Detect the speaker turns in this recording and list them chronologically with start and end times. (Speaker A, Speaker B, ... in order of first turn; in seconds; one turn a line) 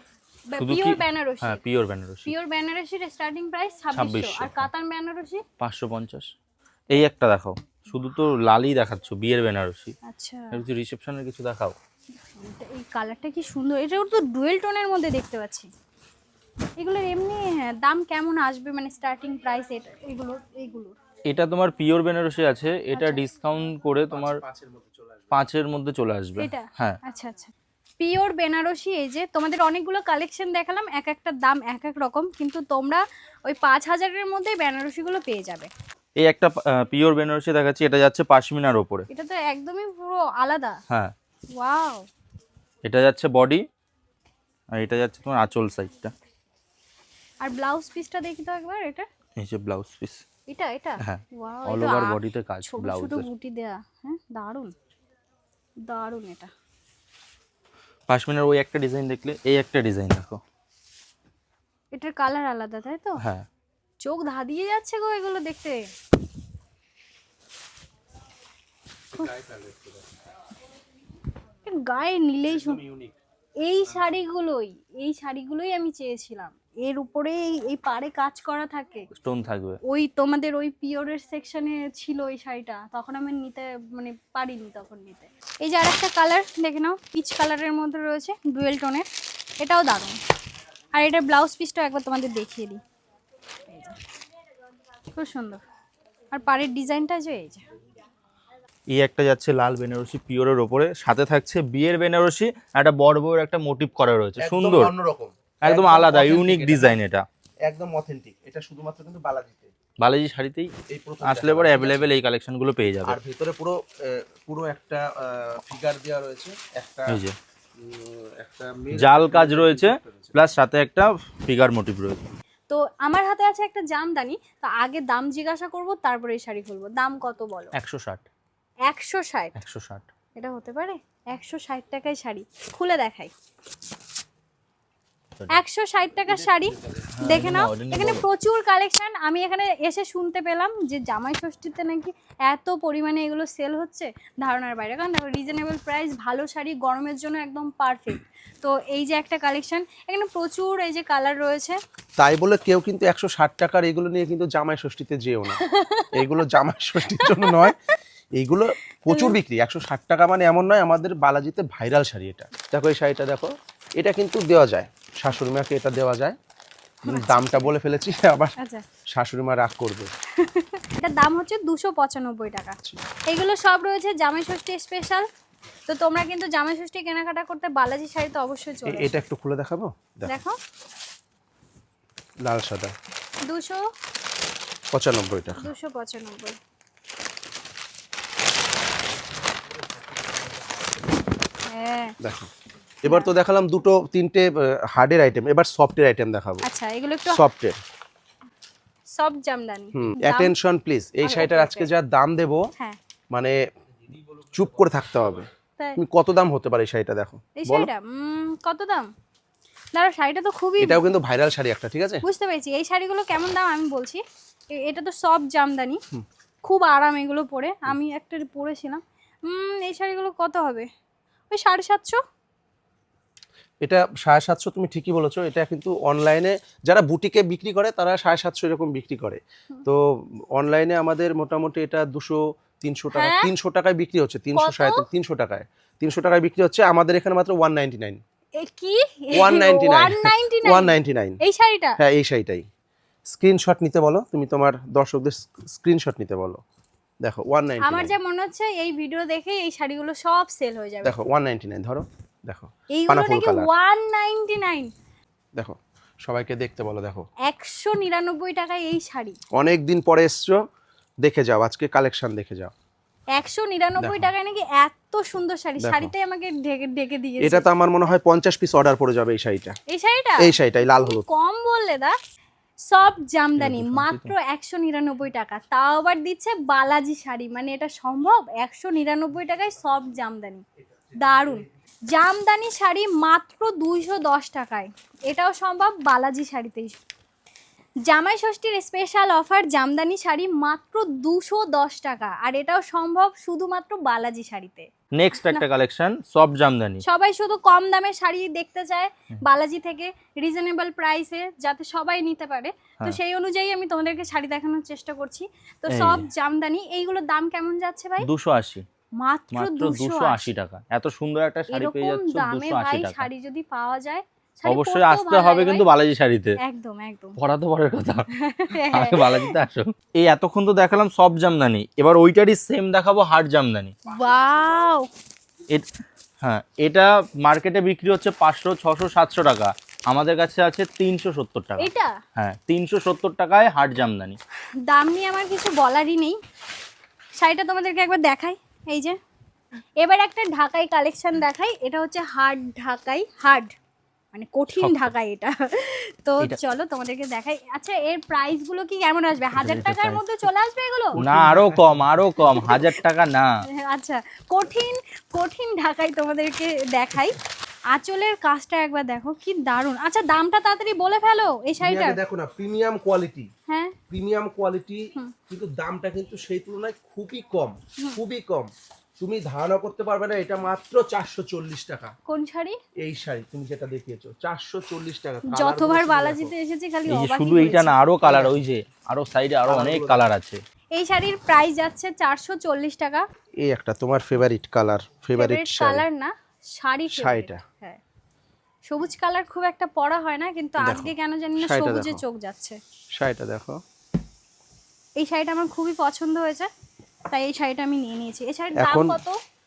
Speaker A: 0.5-1.6
Speaker B: 0.6-2.3
Speaker A: 2.2-5.4
Speaker B: 3.9-4.7
Speaker B: 5.6-6.3
Speaker B: 6.9-9.9
Speaker A: 10.0-10.6
Speaker B: 10.5-11.8
Speaker A: 12.4-15.7
Speaker A: 16.8-20.9
Speaker B: 21.3-24.4
Speaker A: 22.9-23.2
Speaker C: 24.1-25.4
Speaker B: 25.3-27.0
Speaker A: 26.4-35.7
Speaker B: 36.2-39.1
Speaker A: 39.1-40.8
Speaker A: 41.5-42.1
Speaker B: 42.9-43.6
Speaker B: 44.7-46.1
Speaker A: 47.4-49.1
Speaker B: 49.4-50.2
Speaker A: 50.5-54.7
Speaker B: 51.0-53.3
Speaker A: 55.8-56.5
Speaker B: 58.1-60.4
Speaker A: 61.9-63.2
Speaker B: 63.2-63.5
Speaker A: 64.0-65.9
Speaker C: 69.1-70.1
Speaker A: 71.7-72.8
Speaker C: 72.5-73.2
Speaker A: 73.6-79.1
Speaker B: 79.2-79.8
Speaker A: 79.8-89.1
Speaker A: 89.6-90.2
Speaker A: 91.0-92.8
Speaker A: 93.7-94.0
Speaker A: 95.1-95.6
Speaker A: 96.3-97.6
Speaker B: 98.9-104.9
Speaker C: 104.4-107.0
Speaker B: 105.6-107.2
Speaker C: 107.7-109.7
Speaker B: 110.0-110.7
Speaker C: 110.9-112.1
Speaker B: 111.2-113.2
Speaker C: 113.0-117.2
Speaker B: 117.1-117.4
Speaker C: 117.8-120.3
Speaker B: 119.0-122.2
Speaker A: 122.7-127.7
Speaker B: 127.8-128.2
Speaker A: 128.9-129.6
Speaker B: 129.6-130.1
Speaker A: 130.3-133.3
Speaker A: 135.5-151.8
Speaker C: 136.3-137.1
Speaker B: 137.2-138.2
Speaker C: 152.2-155.6
Speaker A: 155.6-156.3
Speaker C: 156.1-157.8
Speaker A: 157.1-157.9
Speaker C: 158.3-166.4
Speaker A: 159.1-159.4
Speaker C: 167.1-168.6
Speaker A: 167.1-167.7
Speaker A: 168.6-168.8
Speaker C: 169.1-170.1
Speaker A: 170.4-175.3
Speaker A: 175.9-179.2
Speaker C: 178.9-180.3
Speaker A: 180.3-180.6
Speaker C: 182.4-182.9
Speaker A: 183.5-183.9
Speaker C: 184.9-185.7
Speaker A: 185.6-186.6
Speaker A: 191.7-192.2
Speaker C: 192.2-192.5
Speaker C: 193.0-196.7
Speaker A: 193.1-193.3
Speaker A: 196.6-197.4
Speaker C: 197.3-197.8
Speaker A: 199.1-200.5
Speaker C: 199.9-202.7
Speaker A: 201.2-201.9
Speaker C: 203.3-203.6
Speaker B: 204.1-204.6
Speaker C: 204.5-207.9
Speaker A: 207.6-209.1
Speaker A: 209.9-211.0
Speaker C: 210.8-212.2
Speaker A: 212.2-216.0
Speaker A: 216.7-220.9
Speaker A: 221.5-222.2
Speaker C: 223.8-238.2
Speaker A: 233.1-233.5
Speaker A: 234.6-235.1
Speaker A: 238.6-242.0
Speaker C: 239.3-241.4
Speaker C: 242.0-242.7
Speaker C: 243.3-246.6
Speaker C: 247.2-248.2
Speaker A: 247.8-251.2
Speaker C: 251.0-253.7
Speaker A: 252.9-254.9
Speaker C: 255.6-257.3
Speaker A: 257.4-259.4
Speaker C: 259.6-260.6
Speaker C: 261.2-262.7
Speaker A: 263.4-267.6
Speaker C: 264.0-264.3
Speaker C: 265.8-266.1
Speaker C: 267.4-269.8
Speaker A: 269.9-272.2
Speaker C: 270.4-271.2
Speaker A: 272.9-280.6
Speaker C: 273.6-274.3
Speaker C: 281.1-281.6
Speaker A: 281.2-287.0
Speaker A: 288.0-295.7
Speaker B: 295.1-297.0
Speaker A: 297.0-308.3
Speaker B: 305.9-306.2
Speaker B: 308.2-308.9
Speaker A: 309.2-310.5
Speaker B: 309.5-313.3
Speaker A: 311.7-315.9
Speaker B: 314.7-316.6
Speaker A: 316.6-317.4
Speaker B: 317.4-323.9
Speaker A: 318.3-319.6
Speaker A: 324.1-325.1
Speaker B: 326.4-334.4
Speaker A: 331.8-332.2
Speaker A: 334.9-336.4
Speaker A: 337.4-339.2
Speaker A: 340.0-343.7
Speaker A: 344.3-351.2
Speaker B: 344.8-345.1
Speaker B: 349.6-350.2
Speaker C: 351.1-352.1
Speaker B: 351.2-353.6
Speaker A: 352.5-352.9
Speaker A: 353.7-357.4
Speaker A: 357.9-362.2
Speaker C: 361.8-363.5
Speaker A: 363.7-364.0
Speaker C: 364.1-372.1
Speaker A: 372.3-372.8
Speaker C: 373.0-376.5
Speaker A: 375.5-377.9
Speaker B: 377.1-380.6
Speaker C: 378.2-378.5
Speaker C: 379.7-380.2
Speaker A: 381.0-383.3
Speaker C: 383.6-386.1
Speaker A: 385.4-388.0
Speaker C: 387.1-387.6
Speaker A: 388.9-392.8
Speaker C: 390.8-392.2
Speaker C: 393.2-393.8
Speaker A: 395.2-396.7
Speaker A: 397.3-399.4
Speaker C: 398.7-399.2